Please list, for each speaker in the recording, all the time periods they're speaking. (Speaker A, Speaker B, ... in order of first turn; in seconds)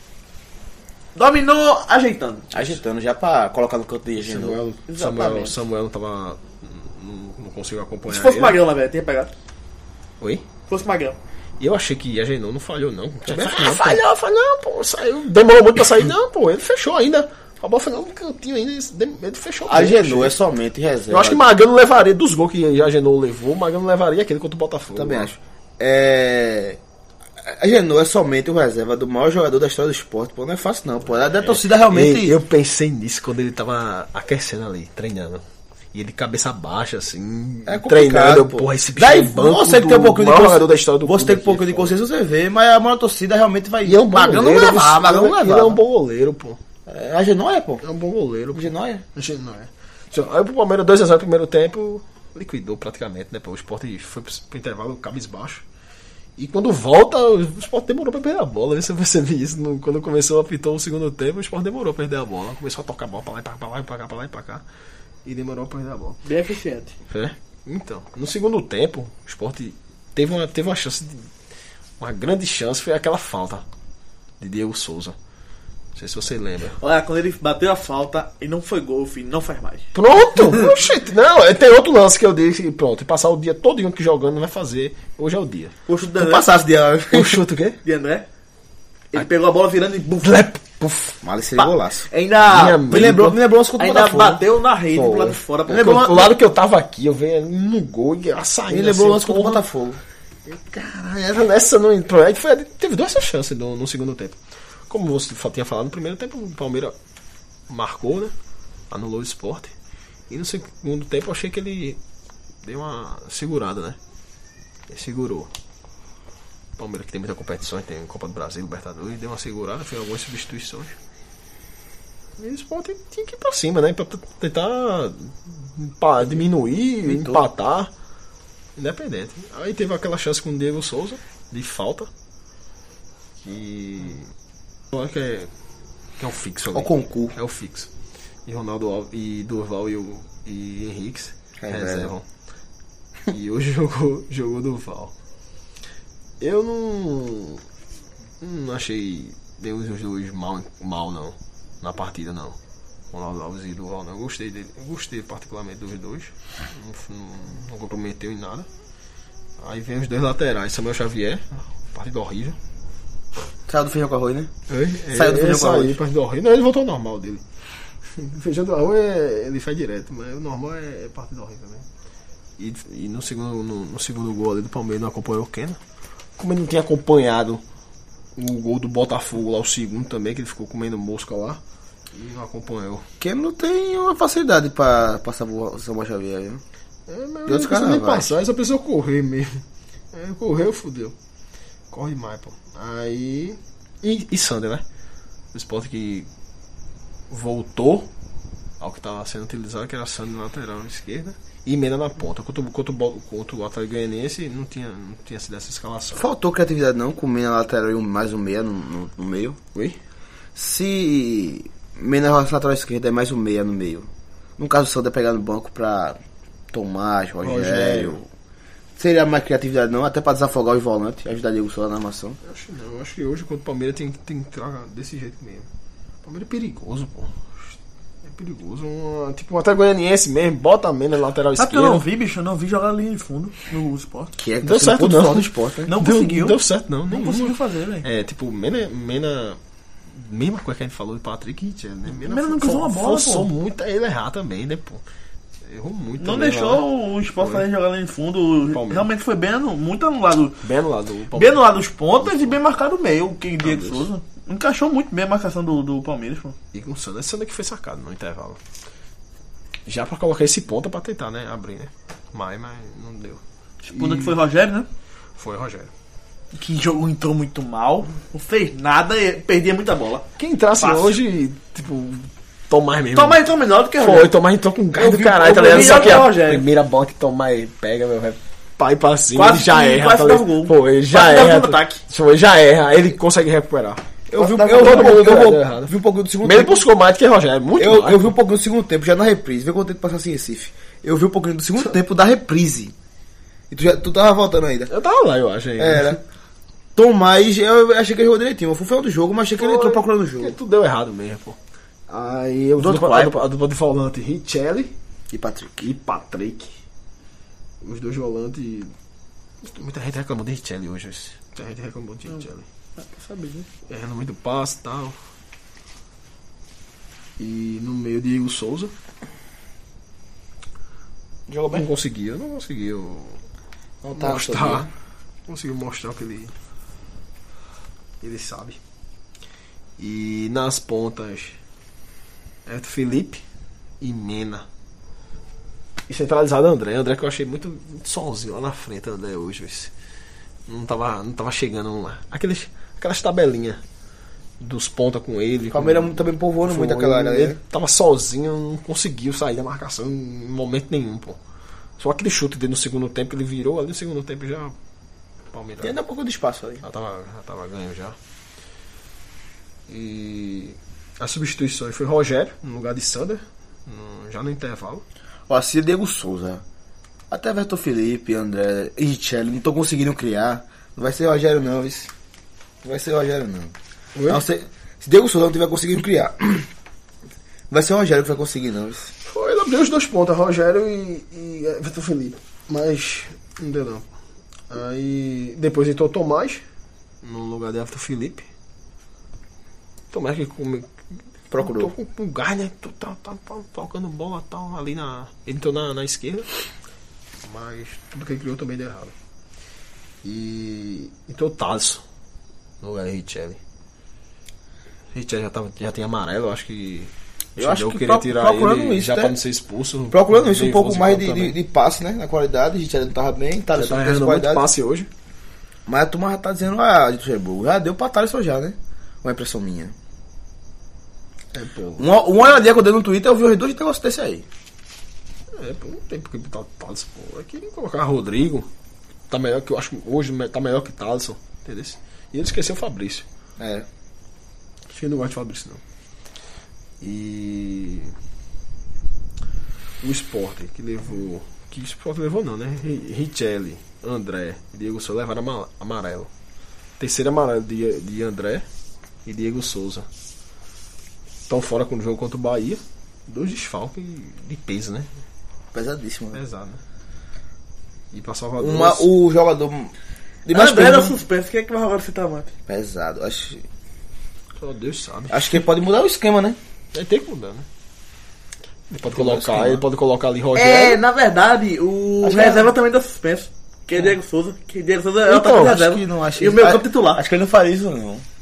Speaker A: 1.1-2.6, 4.9-5.5, 8.1-9.3, 10.7-11.2, 44.3-44.9, 66.2-66.9, 76.8-80.7, 85.9-86.5, 87.8-88.2, 89.1-90.5, 91.6-93.2, 93.8-96.0, 231.6-234.3, 235.9-236.6, 237.1-238.0, 242.1-243.5, 246.2-250.6, 251.3-256.6, 263.8-264.9, 266.5-270.2, 270.8-271.2, 273.1-274.3, 275.0-276.6, 279.3-282.0, 284.3-285.2, 313.0-313.7, 460.5-462.5, 470.5-477.2
Speaker B: 2.5-4.6, 13.2-14.0, 19.7-21.4, 24.9-26.8, 27.4-32.4, 37.6-45.8, 46.9-47.8, 48.5-49.0, 86.2-87.4, 91.2-92.1, 92.9-94.4, 95.0-96.3, 98.7-100.0, 127.0-127.4, 136.7-137.3, 141.6-142.1, 163.7-164.5, 165.1-166.0, 183.2-186.6, 187.5-188.3, 206.1-209.6, 210.5-216.2, 216.7-218.2, 219.0-222.4, 234.4-235.9, 275.0-276.2, 284.3-286.8, 287.8-292.9, 293.7-294.9, 295.8-296.2, 296.9-300.6, 302.8-303.4, 305.3-305.9, 321.5-321.9, 324.0-324.9, 345.7-347.6, 355.8-356.8, 365.5-366.6, 367.3-372.1, 372.8-373.7, 374.3-376.7, 377.7-379.1, 391.5-391.9, 407.6-409.4, 410.1-414.7, 415.9-419.9, 422.0-424.4, 433.6-433.9, 455.7-456.4, 458.6-459.9, 460.4-461.1, 462.7-463.6, 465.3-466.6, 469.1-469.8, 472.2-472.7, 475.3-478.2
Speaker C: 4.2-8.6, 11.6-20.3, 21.1-25.3, 31.3-42.0, 43.8-46.6, 47.8-55.6, 56.4-64.6, 65.2-66.2, 67.1-71.3, 72.0-73.6, 74.4-75.2, 75.9-76.8, 79.9-85.7, 87.1-87.8, 90.2-91.2, 92.4-93.4, 95.0-99.6, 100.5-104.4, 104.9-107.0, 107.7-108.3, 108.9-109.7, 110.3-112.0, 112.6-114.0, 114.9-115.5, 116.8-120.9, 122.4-127.9, 128.8-132.1, 133.4-134.2, 134.9-135.5, 136.2-137.9, 138.4-142.2, 143.3-145.1, 146.4-147.6, 148.4-152.6, 153.1-158.7, 159.6-162.6, 164.7-167.4, 168.1-171.8, 172.6-175.8, 176.4-177.6, 178.3-181.6, 182.1-183.1, 187.1-191.1, 191.9-194.8, 195.5-196.3, 197.3-198.1, 198.8-206.2, 217.4-218.2, 222.4-225.7, 226.2-227.7, 228.2-232.0, 234.6-239.6, 240.1-245.0, 245.7-246.8, 247.4-247.7, 248.7-249.1, 250.6-251.7, 252.2-252.6, 253.6-254.1, 256.7-258.6, 259.9-263.4, 263.9-264.3, 265.4-265.9, 270.4-273.4, 274.0-288.3, 294.9-296.2, 299.6-301.6, 302.1-304.9, 305.8-306.7, 307.8-308.9, 309.6-312.6, 313.9-315.1, 317.4-318.9, 321.7-323.4, 324.1-324.9, 325.5-326.5, 328.2-328.8, 330.0-331.6, 332.6-333.4, 334.0-334.6, 336.1-339.9, 340.7-343.8, 344.6-351.4, 352.0-354.7, 355.5-356.0, 356.8-358.1, 359.9-365.0, 374.1-374.4, 379.2-384.1, 384.7-386.6, 387.2-388.4, 390.1-390.9, 391.6-396.5, 397.4-399.1, 400.2-402.0, 402.8-403.6, 405.1-411.6, 413.7-415.1, 421.5-422.1, 425.6-428.7, 429.3-433.2, 434.9-435.8, 437.0-438.1, 440.0-446.3, 447.0-448.6, 449.2-450.1, 451.5-455.1, 456.3-456.8, 458.1-459.1, 464.6-465.6, 466.9-467.6, 468.9-471.0